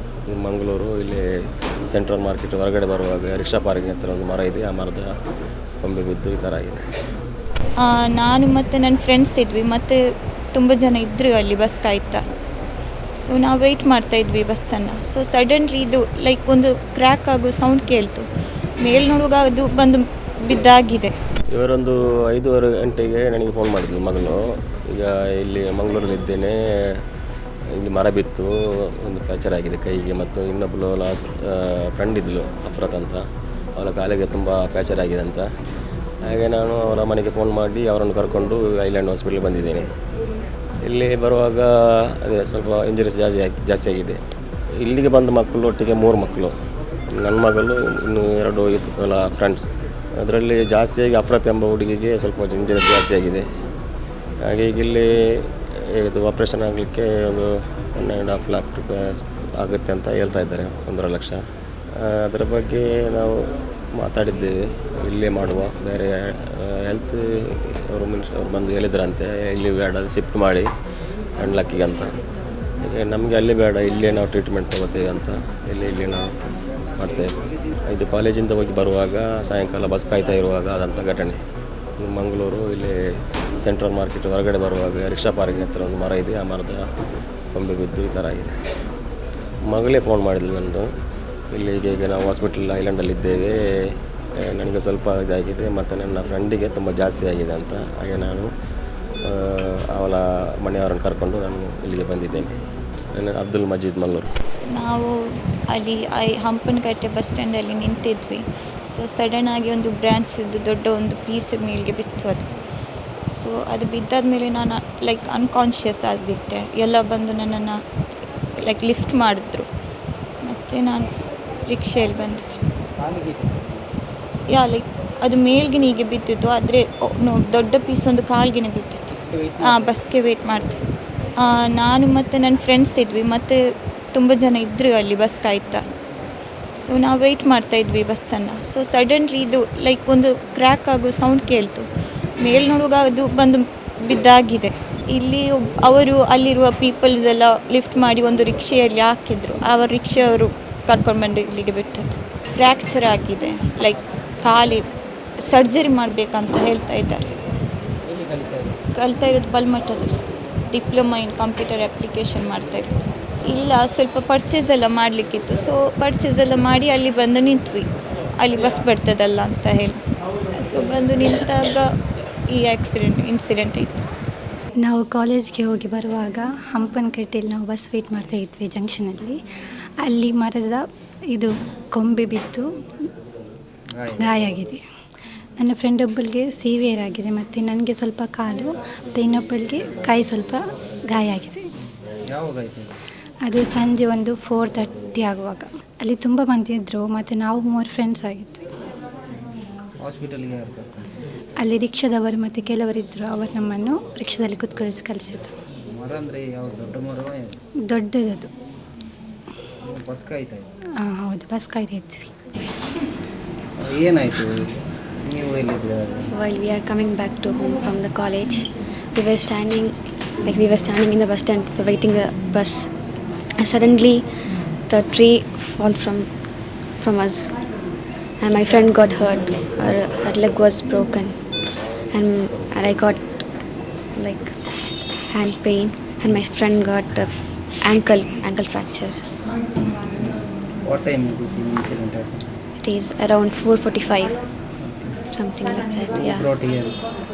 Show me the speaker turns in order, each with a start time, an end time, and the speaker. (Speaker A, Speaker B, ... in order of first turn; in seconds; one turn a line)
Speaker A: 0.3-1.3
Speaker A: 1.9-5.1
Speaker A: 5.8-6.8
Speaker B: 7.8-10.0
Speaker B: 10.5-12.2
Speaker B: 13.2-18.3
Speaker B: 18.8-21.1
Speaker A: 21.5-27.0
Speaker A: 27.8-33.2
Speaker A: 33.8-35.5
Speaker A: 36.2-39.9
Speaker A: 40.9-44.2
Speaker A: 44.8-46.5
Speaker A: 47.1-53.5
Speaker A: 54.4-61.5
Speaker A: 62.0-70.7
Speaker A: 71.4-72.1
Speaker A: 72.8-76.3
Speaker C: 77.0-77.8
Speaker A: 77.0-77.3
Speaker A: 77.9-81.4
Speaker A: 82.0-83.0
Speaker A: 83.6-86.9
Speaker A: 87.5-88.6
Speaker A: 89.7-90.9
Speaker A: 91.5-98.5
Speaker A: 99.2-102.5
Speaker A: 103.2-104.3
Speaker B: 104.8-105.1
Speaker B: 105.7-112.5
Speaker B: 113.3-117.8
Speaker B: 118.6-119.7
Speaker B: 120.5-121.1
Speaker B: 121.7-122.5
Speaker C: 123.0-123.9
Speaker B: 124.5-130.8
Speaker C: 129.2-129.9
Speaker B: 131.4-133.6
Speaker B: 134.1-135.8
Speaker B: 136.8-141.9
Speaker B: 142.4-154.9
Speaker B: 155.4-157.3
Speaker C: 158.1-158.8
Speaker B: 158.9-162.9
Speaker B: 163.4-170.0
Speaker B: 170.5-174.1
Speaker D: 174.8-179.4
Speaker D: 180.0-182.7
Speaker C: 183.9-184.6
Speaker D: 184.1-184.8
Speaker D: 185.6-191.7
Speaker C: 192.3-193.0
Speaker D: 193.4-198.7
Speaker C: 200.0-201.1
Speaker D: 201.6-205.5
Speaker C: 205.9-207.6
Speaker D: 207.9-208.5
Speaker C: 209.8-210.7
Speaker D: 211.0-212.3
Speaker C: 213.8-216.3
Speaker E: 216.3-233.5
Speaker E: 234.1-234.6
Speaker E: 235.2-239.3
Speaker C: 240.2-242.5
Speaker E: 242.8-244.5
Speaker C: 244.8-245.2
Speaker E: 245.3-246.5
Speaker C: 246.1-247.0